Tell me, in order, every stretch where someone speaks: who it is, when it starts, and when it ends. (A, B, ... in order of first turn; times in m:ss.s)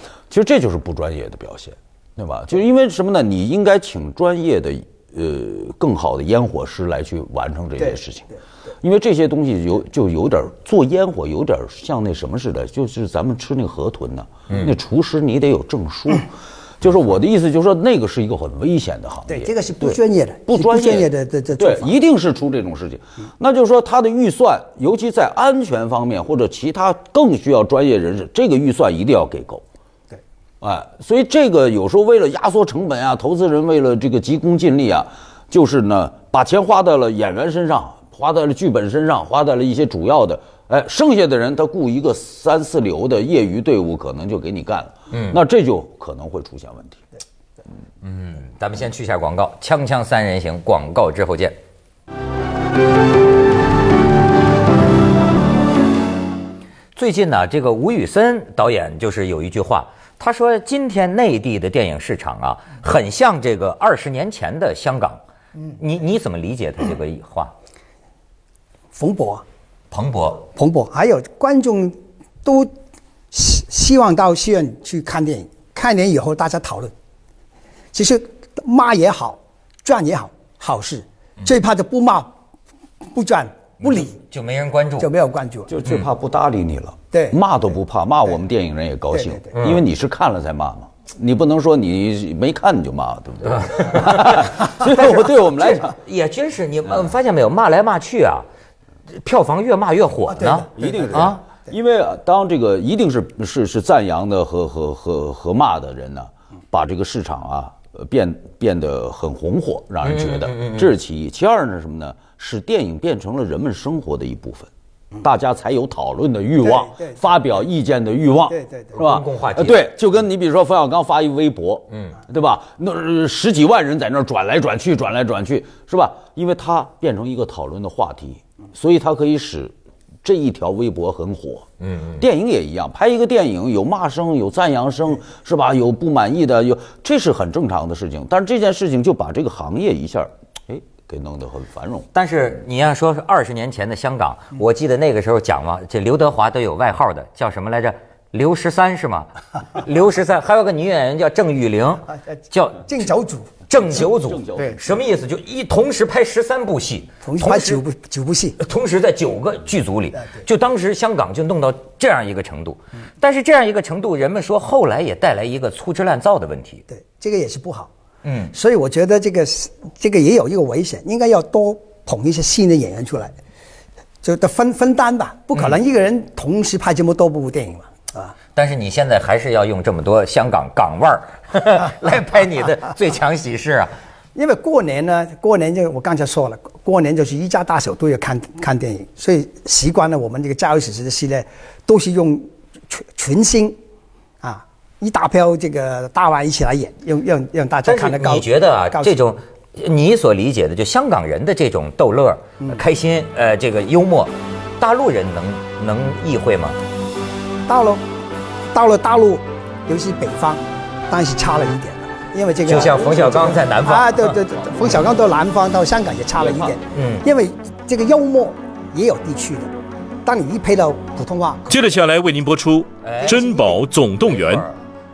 0:00.3-0:16.3 A
0:16.8-0:29.6 A
0:19.3-0:21.9 B
0:30.6-0:47.0 A
0:45.1-0:45.4 C
0:48.0-0:51.6 C
0:57.0-1:05.2 C
1:05.8-1:07.5 C
1:08.9-1:09.4 B
1:09.9-1:10.4 C
1:10.5-1:12.7 B
1:13.3-1:16.9 B
1:17.9-1:22.4 B
1:23.1-1:24.2 B
1:23.8-1:25.1 C
1:25.0-1:25.7 B
1:25.7-1:36.0 A
1:27.1-1:27.4 B
1:29.1-1:29.4 B
1:29.5-1:29.8 C
1:33.5-1:38.4 C
1:39.2-1:41.4 C
1:40.3-1:41.3 B
1:40.8-1:54.7 A
1:50.0-1:50.9 C
1:55.2-2:09.7 A
1:56.6-1:57.2 B
1:58.5-1:59.0 B
1:58.9-1:59.9 C
2:01.9-2:02.2 C
2:10.2-2:11.7 A
2:11.8-2:12.2 C
2:12.2-2:22.1 A
2:22.1-2:32.9 C
2:32.8-2:33.5 B
2:33.7-2:37.8 C
2:33.8-2:34.8 A
2:37.2-2:38.6 B
2:38.6-2:46.8 C
2:46.9-2:47.9 B
2:48.2-2:48.5 C
2:48.5-2:53.4 B
2:54.2-2:58.3 B
2:58.6-3:03.9 C
3:04.3-3:13.8 B
3:14.4-3:19.2 B
3:17.8-3:26.8 C
3:27.7-3:28.0 B
3:28.7-3:39.7 B
3:32.6-3:34.4 C
3:36.4-3:36.8 A
3:36.9-3:37.2 C
3:40.2-3:42.0 B
3:41.7-3:44.6 D
3:43.0-3:43.6 C
3:43.2-3:43.9 B
3:44.2-3:44.8 C